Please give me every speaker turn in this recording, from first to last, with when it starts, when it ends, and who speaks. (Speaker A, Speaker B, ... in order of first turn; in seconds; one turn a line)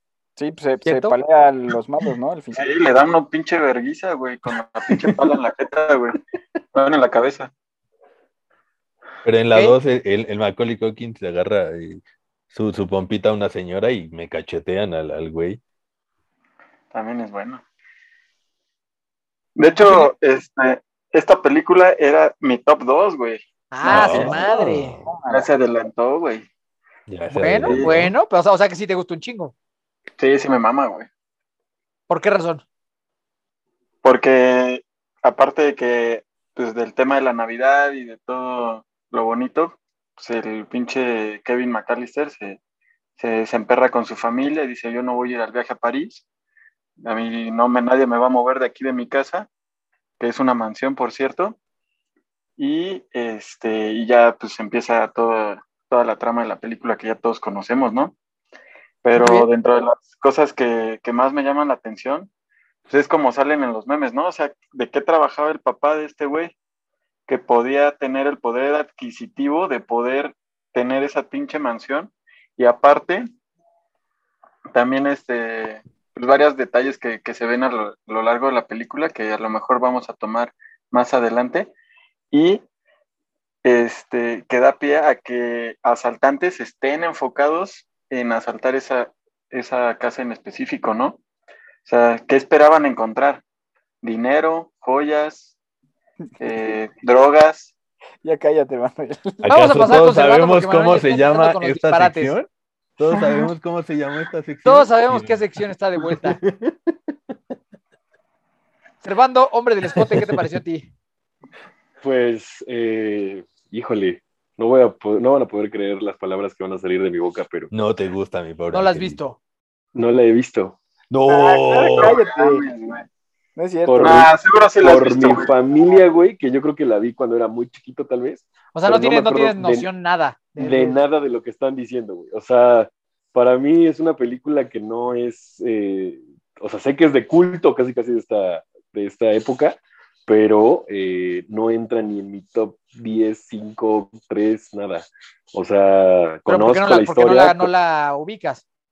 Speaker A: 0.4-2.7
Speaker B: 0.8-1.2
Speaker C: 2.5-6.2
Speaker C: 6.7-7.5
Speaker D: 9.2-15.6
Speaker C: 16.9-17.6
Speaker C: 19.6-24.3
Speaker B: 23.7-24.9
Speaker D: 23.9-25.1
Speaker A: 24.1-25.5
Speaker C: 25.3-26.5
Speaker D: 27.1-28.1
Speaker B: 27.3-29.5
Speaker C: 27.7-28.0
Speaker C: 30.2-31.1
Speaker B: 32.1-32.6
Speaker C: 34.0-42.6
Speaker C: 43.2-46.2
Speaker C: 47.0-49.5
Speaker C: 50.2-51.6
Speaker C: 52.6-58.1
Speaker C: 59.0-62.3
Speaker B: 59.2-59.5
Speaker C: 62.9-66.5
Speaker C: 67.3-73.3
Speaker C: 74.7-81.7
Speaker C: 82.3-82.6
Speaker C: 83.6-91.2
Speaker C: 91.8-93.4
Speaker C: 94.0-95.6
Speaker C: 96.4-97.7
Speaker A: 98.2-99.5
Speaker D: 99.4-105.6
Speaker B: 99.5-102.3
Speaker B: 104.6-106.4
Speaker D: 106.1-106.7
Speaker B: 109.0-110.9
Speaker D: 110.0-110.3
Speaker E: 112.0-117.7
Speaker D: 117.7-119.2
Speaker B: 118.7-119.4
Speaker E: 120.0-120.8
Speaker D: 121.1-122.2
Speaker C: 121.3-123.1
Speaker A: 121.9-122.6
Speaker A: 123.6-124.3
Speaker E: 123.9-129.9
Speaker C: 124.0-125.5
Speaker B: 128.7-131.0
Speaker E: 130.6-147.7
Speaker B: 146.5-148.6